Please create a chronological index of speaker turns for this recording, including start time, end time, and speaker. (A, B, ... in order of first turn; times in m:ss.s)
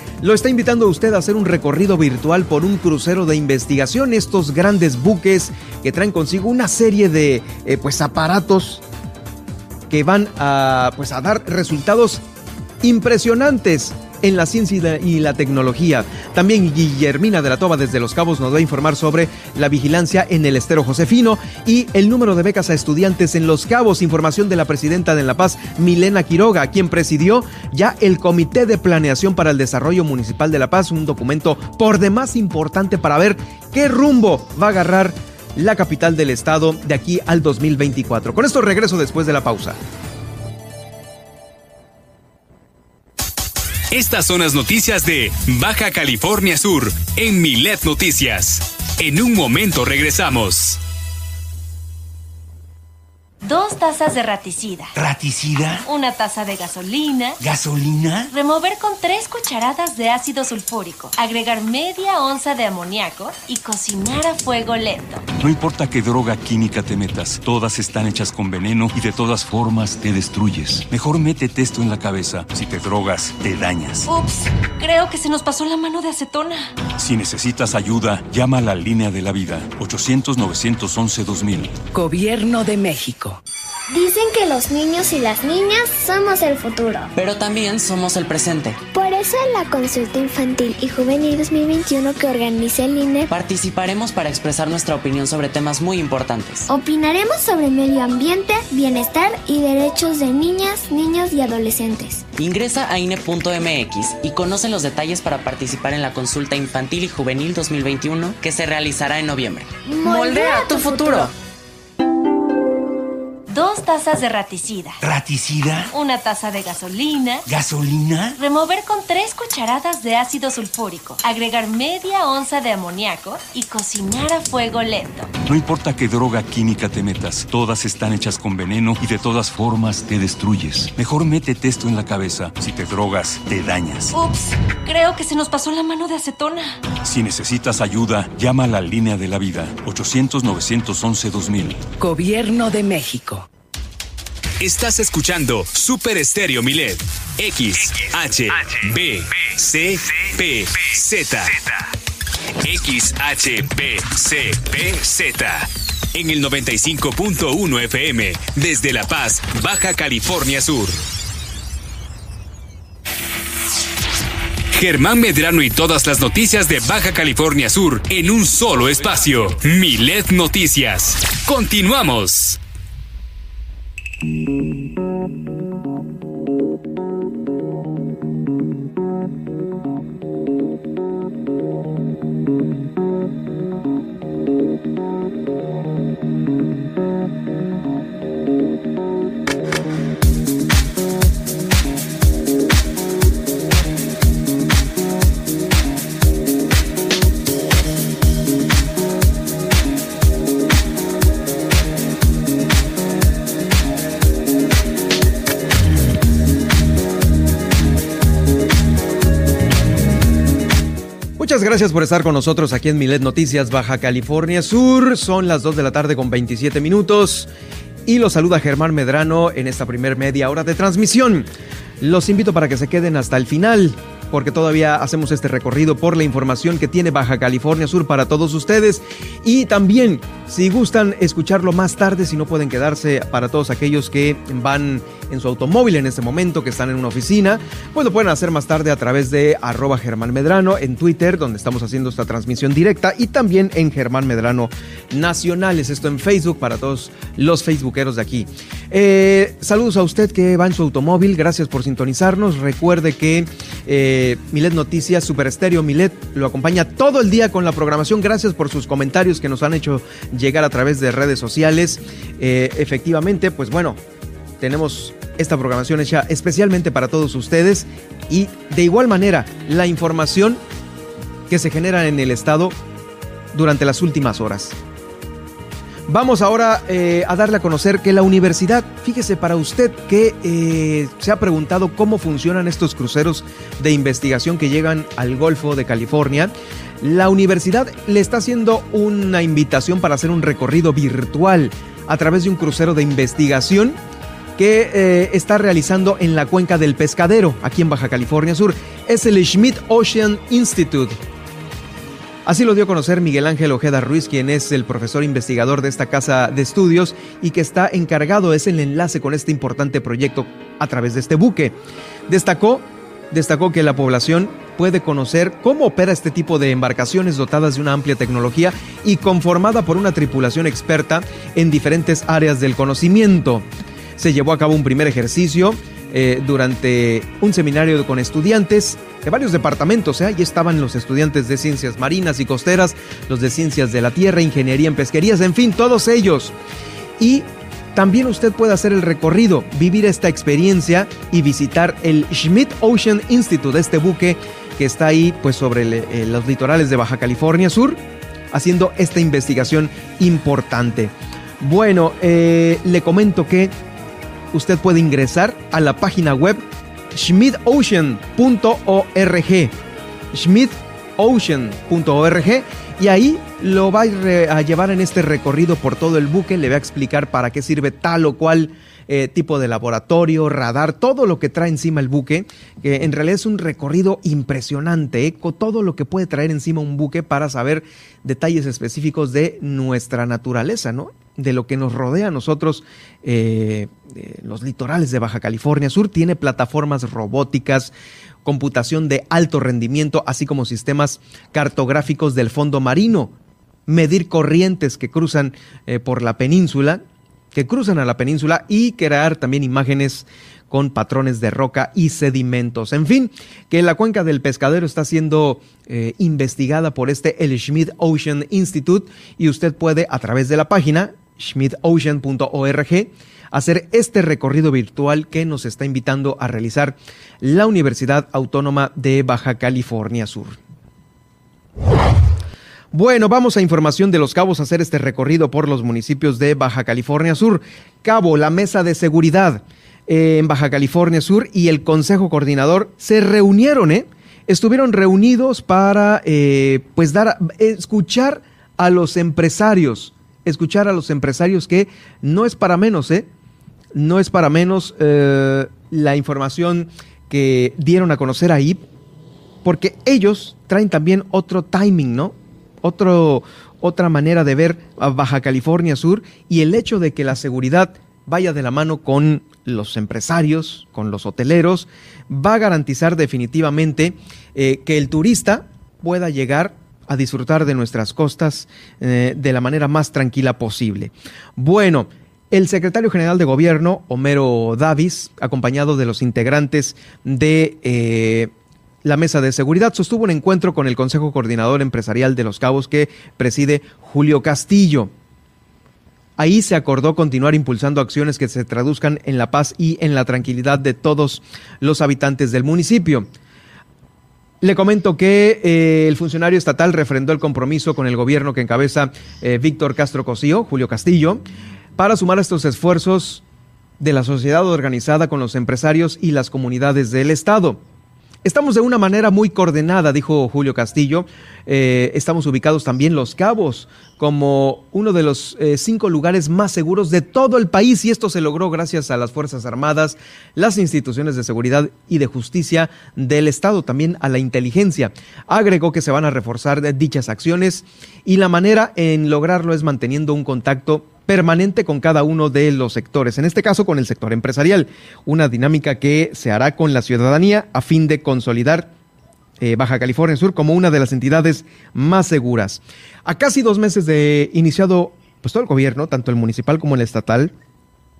0:00.2-0:08.8 A
0:09.9-0:12.2 A
0:12.8-0:39.8 A
0:43.9-0:50.8 B
0:53.4-0:55.0 C
0:55.0-0:55.8 D
0:55.8-0:57.4 C
0:57.4-0:58.3 D
0:58.3-1:05.3 C
1:05.4-1:14.1 E
1:14.1-1:16.8 C
1:17.0-1:21.8 E
1:21.9-1:23.4 F
1:23.9-1:27.1 G
1:27.1-1:28.8 H
1:28.9-1:33.3 G
1:33.3-1:36.6 H
1:36.7-1:42.2 G
1:42.4-1:49.7 H
1:49.9-1:51.1 G
1:50.0-1:51.3 F
1:53.5-1:55.0 C
1:55.0-1:55.9 D
1:55.9-1:57.4 C
1:57.5-1:58.4 D
1:58.3-2:05.4 C
2:05.4-2:14.1 E
2:14.1-2:16.8 C
2:17.0-2:21.8 E
2:22.0-2:23.4 F
2:24.6-2:31.9 B
2:32.6-2:41.0 B
2:44.7-2:52.6 B
3:31.4-3:37.5 A
3:38.0-3:41.5 A
3:42.0-4:24.0 A
4:24.6-4:30.6 A
4:31.5-4:32.8 A
4:33.5-4:34.8 A
4:36.1-4:54.0 A
4:54.6-5:01.2 A
5:02.4-5:11.7 A
5:12.3-5:23.6 A
5:24.2-5:36.5 A
5:37.2-5:53.7 A
5:54.5-5:56.6 A
5:57.1-5:59.7 A
6:00.3-6:27.9 A
6:28.4-6:33.3 A
6:33.9-6:37.0 A
6:37.5-7:00.6 A
7:02.9-7:23.3 A
7:23.9-7:28.8 A
7:29.6-7:58.5 A
7:59.0-8:05.1 A
8:06.4-8:13.3 A
8:14.6-8:21.4 A
8:22.0-8:23.4 A
8:24.0-8:27.8 A
8:28.4-8:58.9 A
8:59.6-9:07.5 A